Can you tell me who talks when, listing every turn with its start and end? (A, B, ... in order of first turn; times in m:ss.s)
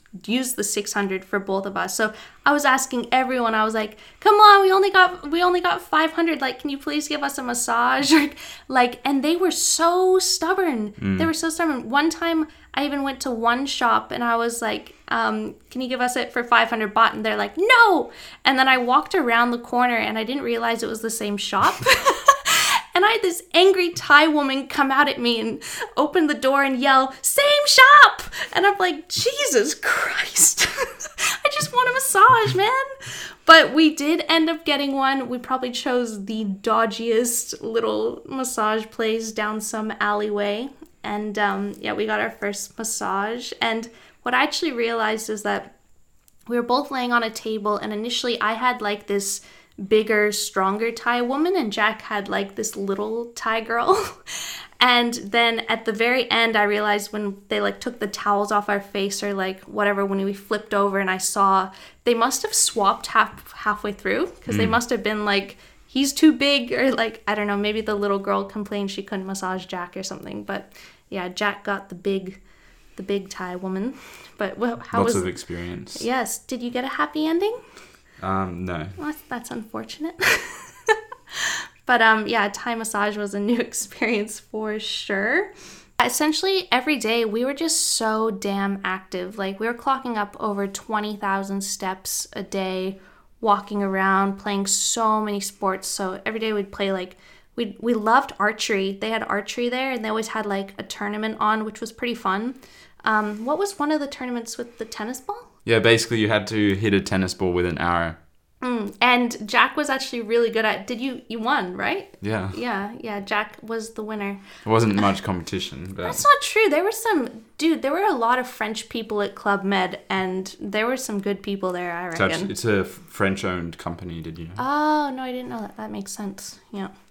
0:00.2-0:45.7 A
0:11.0-0:11.3 B
0:46.5-1:12.4 A
1:04.5-1:04.8 B
1:13.0-1:17.6 A
1:14.9-1:16.0 B
1:18.2-1:19.0 B
1:19.0-1:45.5 A
1:45.6-1:48.2 B
1:48.6-1:54.4 A
1:52.2-1:52.6 B
1:54.6-1:56.2 B
1:56.0-2:02.5 A
2:02.1-2:04.6 B
2:04.6-2:06.9 A